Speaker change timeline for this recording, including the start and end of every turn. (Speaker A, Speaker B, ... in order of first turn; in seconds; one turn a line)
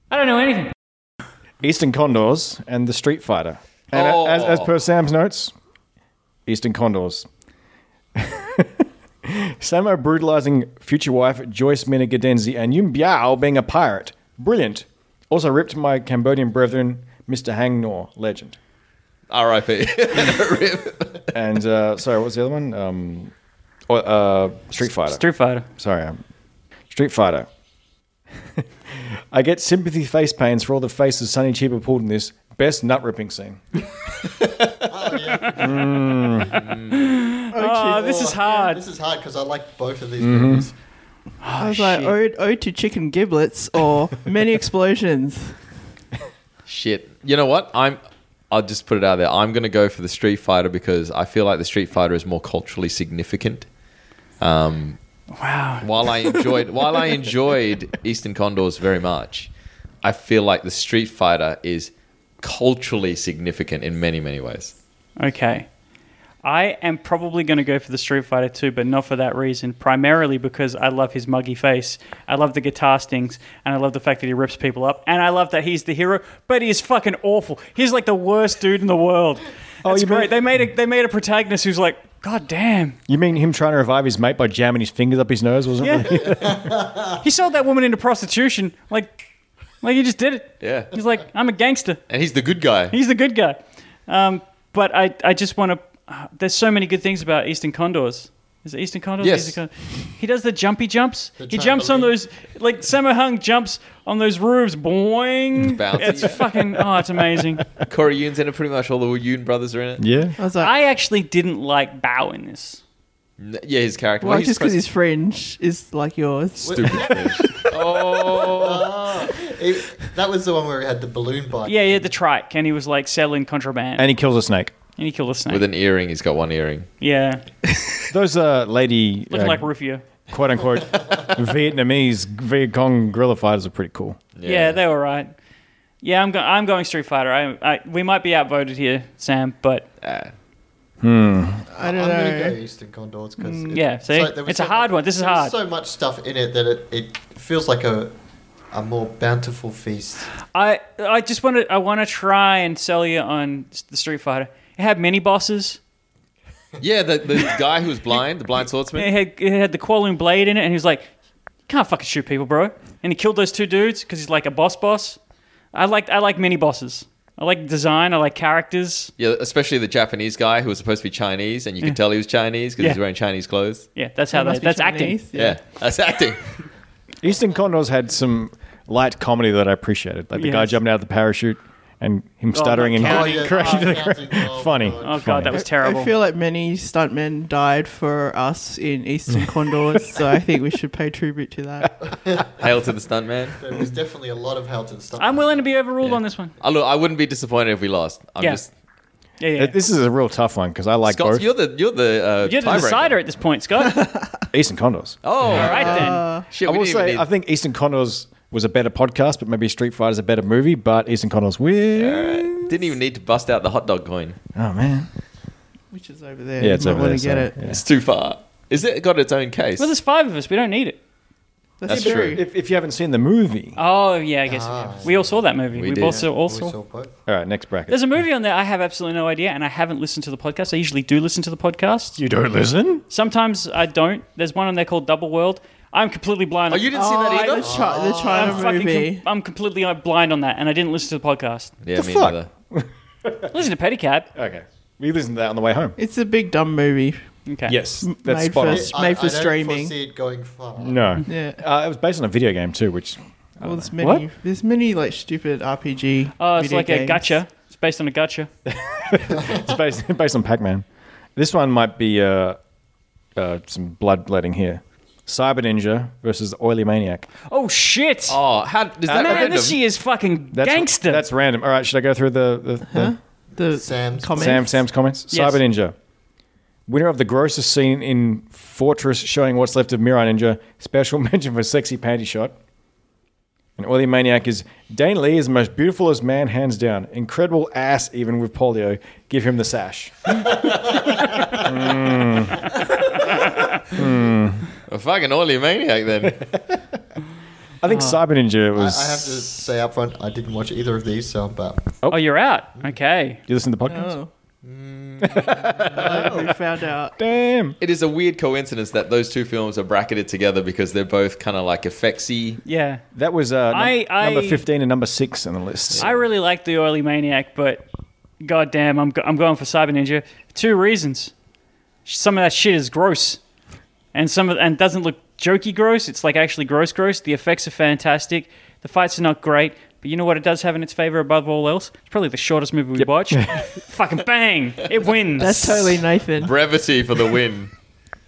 Speaker A: 0.1-0.7
Speaker B: 1.6-5.5
Speaker C: 3.9-4.7
Speaker B: 6.5-7.3
Speaker B: 8.2-18.6
Speaker C: 19.3-21.3
Speaker B: 21.3-23.3
Speaker B: 23.9-25.2
Speaker A: 25.1-25.7
Speaker B: 25.8-26.2
Speaker B: 26.9-27.5
Speaker B: 28.6-33.6
Speaker D: 34.8-36.2
Speaker B: 35.5-36.6
Speaker C: 36.5-37.1
Speaker A: 36.9-38.8
Speaker E: 37.5-38.4
Speaker D: 38.1-40.7
Speaker B: 40.2-40.7
Speaker A: 41.4-42.1
Speaker E: 41.6-45.6
Speaker C: 46.7-53.7
Speaker C: 54.4-55.0
Speaker A: 55.4-56.5
Speaker C: 55.8-59.5
Speaker C: 60.0-64.7
Speaker A: 65.2-65.7
Speaker A: 66.4-83.0
Speaker B: 79.8-80.4
Speaker B: 83.1-86.7
Speaker A: 85.8-86.5
Speaker A: 87.1-89.2
Speaker A: 89.8-92.0
Speaker C: 90.6-90.9
Speaker C: 92.1-92.9
Speaker A: 92.9-107.7
Speaker C: 99.2-99.6
Speaker D: 101.4-102.1
Speaker C: 105.7-106.4
Speaker C: 107.8-110.0
Speaker B: 110.0-110.4
Speaker E: 110.4-110.7
Speaker A: 110.6-112.8
Speaker C: 113.4-114.8
Speaker E: 114.2-117.5
Speaker C: 116.6-118.9
Speaker D: 116.7-117.7
Speaker D: 118.3-122.1
Speaker A: 121.7-124.1
Speaker B: 124.0-124.8
Speaker A: 125.0-125.7
Speaker C: 125.5-126.9
Speaker A: 127.0-127.5
Speaker B: 128.1-129.7
Speaker A: 129.3-130.0
Speaker B: 130.3-134.2
Speaker C: 134.4-134.8
Speaker A: 134.4-135.3
Speaker A: 136.0-139.9
Speaker C: 140.0-140.3
Speaker B: 141.0-141.7
Speaker E: 141.7-142.6
Speaker D: 141.8-148.1
Speaker E: 143.4-143.8
Speaker A: 143.7-145.5
Speaker D: 148.7-150.3
Speaker A: 150.5-155.8
Speaker C: 156.8-159.1
Speaker A: 159.0-161.1
Speaker A: 161.7-165.2
Speaker A: 165.7-169.1
Speaker C: 169.2-173.9
Speaker A: 173.9-175.2
Speaker E: 174.3-175.6
Speaker C: 175.3-176.6
Speaker B: 177.2-185.6
Speaker A: 180.3-180.8
Speaker A: 182.5-184.0
Speaker D: 183.0-185.4
Speaker A: 185.0-186.1
Speaker E: 185.6-192.0
Speaker D: 192.1-192.5
Speaker C: 192.6-193.6
Speaker D: 193.6-195.6
Speaker A: 195.2-196.5
Speaker C: 196.0-198.7
Speaker A: 199.4-199.8
Speaker B: 199.6-201.5
Speaker C: 201.1-203.2
Speaker A: 202.4-204.1
Speaker B: 204.5-205.6
Speaker C: 205.2-207.3
Speaker A: 205.5-206.3
Speaker E: 205.6-206.5
Speaker B: 206.7-212.8
Speaker C: 212.0-214.4
Speaker B: 214.6-215.1
Speaker E: 215.9-217.6
Speaker B: 216.6-217.8
Speaker C: 217.7-219.9
Speaker A: 219.8-221.0
Speaker E: 221.8-222.4
Speaker C: 221.9-222.4
Speaker B: 221.9-223.8
Speaker A: 223.8-226.8
Speaker D: 224.5-227.1
Speaker C: 225.8-226.2
Speaker B: 227.3-228.1
Speaker A: 227.9-232.2
Speaker B: 232.2-233.0
Speaker A: 233.1-237.7
Speaker C: 236.7-237.9
Speaker E: 236.9-239.2
Speaker D: 237.6-238.7
Speaker A: 238.2-241.7
Speaker C: 241.8-242.5
Speaker B: 241.9-243.6
Speaker A: 243.5-244.3
Speaker B: 244.3-246.0
Speaker E: 246.0-247.2
Speaker A: 247.5-247.8
Speaker B: 247.7-248.9
Speaker E: 248.0-249.9
Speaker D: 248.6-251.2
Speaker B: 250.8-253.9
Speaker E: 251.2-251.6
Speaker E: 253.6-257.4
Speaker A: 256.4-258.5
Speaker B: 258.7-260.9
Speaker B: 261.4-262.6
Speaker B: 263.4-267.3
Speaker A: 267.5-268.4
Speaker C: 268.3-269.8
Speaker B: 269.1-269.6
Speaker A: 269.1-271.2
Speaker B: 270.5-273.1
Speaker E: 272.9-274.8
Speaker D: 273.7-274.6
Speaker B: 274.4-275.9
Speaker A: 275.3-275.6
Speaker B: 276.9-282.6
Speaker B: 283.8-290.4
Speaker D: 290.6-291.5
Speaker B: 291.5-292.7
Speaker B: 293.9-294.7
Speaker C: 294.9-296.4
Speaker B: 296.3-296.8
Speaker B: 297.8-299.5
Speaker D: 298.8-301.9
Speaker A: 302.1-303.4
Speaker B: 303.5-304.2
Speaker E: 303.9-304.3
Speaker D: 304.6-306.5
Speaker B: 305.2-306.4
Speaker E: 305.9-307.1
Speaker B: 307.2-307.8
Speaker C: 307.8-312.6
Speaker A: 312.6-313.0
Speaker B: 313.1-316.2
Speaker A: 313.7-314.6
Speaker A: 316.0-317.8
Speaker A: 318.4-321.3
Speaker A: 322.1-323.4
Speaker A: 324.1-336.0
Speaker B: 333.0-333.6
Speaker E: 335.4-336.6
Speaker C: 336.4-337.7